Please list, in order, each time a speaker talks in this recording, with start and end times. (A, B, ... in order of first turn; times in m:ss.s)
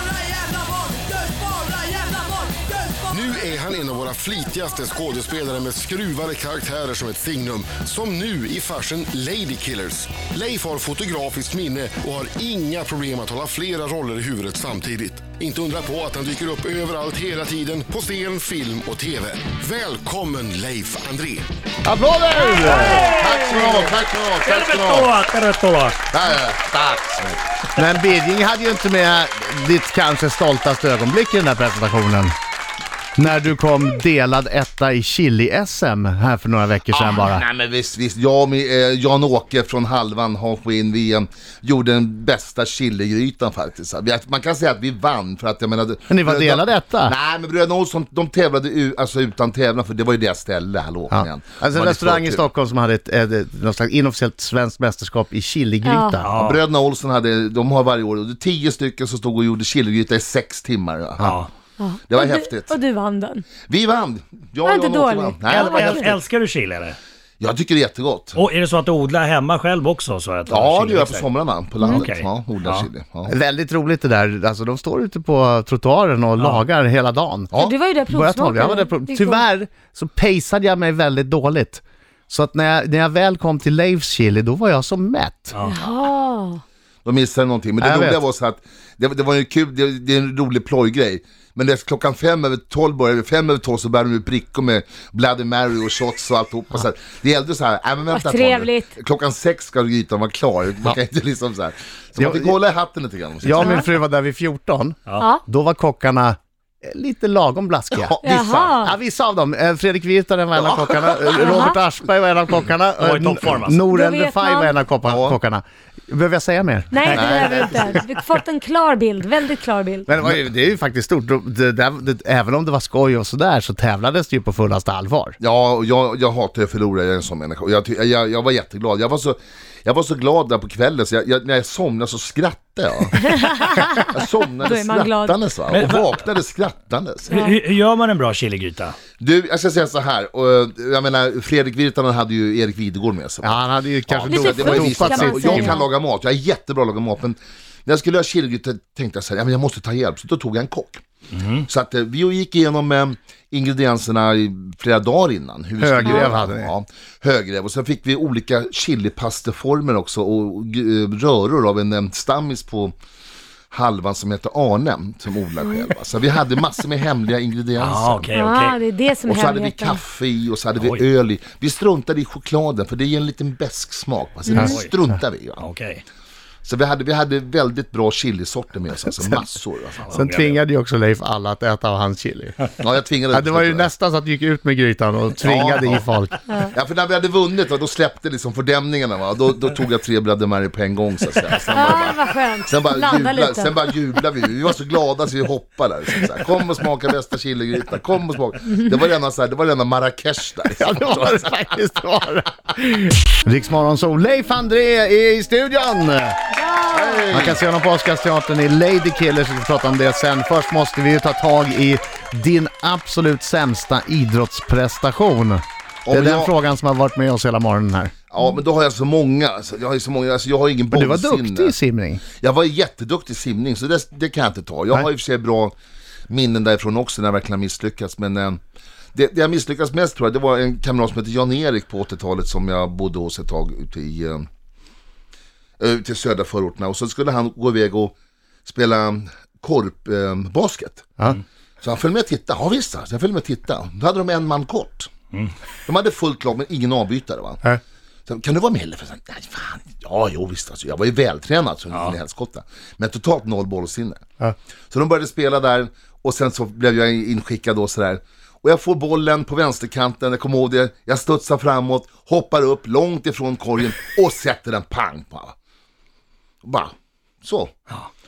0:00.4-0:02.4 A
0:02.9-0:21.5 A
0:21.8-0:23.1 B
0:22.5-0:26.0 C
0:22.7-0:25.2 D
0:26.1-0:27.4 D
0:27.8-0:32.4 B
0:33.2-0:37.4 B
0:36.9-0:52.4 D
0:46.1-0:47.1 B
0:51.1-0:56.3 B
0:55.8-0:56.2 E
0:56.2-0:56.6 C
0:56.3-1:01.4 D
1:01.2-1:01.5 C
1:01.8-1:03.5 E
1:02.0-1:02.8 D
1:03.7-1:06.2 D
1:04.6-1:06.1 E
1:05.5-1:07.0 C
1:07.4-1:08.4 D
1:08.4-1:11.3 C
1:10.5-1:13.3 D
1:11.9-1:12.9 C
1:13.3-1:17.5 B
1:16.4-1:16.6 C
1:17.6-1:19.4 E
1:18.1-1:25.5 B
1:25.6-1:26.6 E
1:25.7-1:26.0 D
1:27.0-1:43.8 D
1:27.8-1:28.2 B
1:38.1-1:38.9 E
1:42.2-1:42.6 B
1:43.4-1:48.2 B
1:43.6-1:43.8 E
1:45.2-1:45.4 E
1:47.9-1:48.7 D
1:48.2-1:48.9 E
1:48.8-1:57.2 B
1:50.6-1:51.7 D
1:51.4-1:51.8 E
1:53.0-1:53.9 C
1:53.9-1:54.7 E
1:55.0-1:55.4 D
1:56.9-2:00.1 E
1:57.1-1:58.0 D
2:00.1-2:05.4 B
2:05.4-2:17.5 D
2:13.3-2:15.4 E
2:15.7-2:16.2 C
2:17.3-2:19.0 C
2:19.2-2:31.0 D
2:23.4-2:25.8 B
2:24.3-2:25.9 E
2:31.4-2:31.6 C
2:31.6-2:42.9 D
2:35.8-2:36.7 B
2:43.7-2:48.3 D
2:47.8-2:48.8 C
2:48.3-2:50.0 E
2:49.2-2:55.7 D
2:50.8-2:51.0 C
2:54.6-2:54.9 C
2:55.6-2:56.0 C
2:56.6-3:00.3 D
3:00.0-3:00.6 C
3:00.1-3:02.6 B
3:02.8-3:03.9 D
3:03.3-3:06.3 B
3:05.4-3:21.6 D
3:11.7-3:13.9 E
3:20.7-3:26.4 B
3:26.6-3:27.2 E
3:26.9-3:27.6 D
3:27.3-3:38.1 B
3:36.1-3:36.5 D
3:38.3-3:41.8 D
3:40.9-3:42.2 B
3:42.4-3:45.8 D
3:46.3-3:48.6 D
3:49.2-3:54.5 D
3:55.8-3:58.1 D
3:58.6-4:05.1 D
4:05.9-4:07.7 D
4:08.3-4:14.2 D
4:14.9-4:25.6 D
4:26.6-4:27.7 D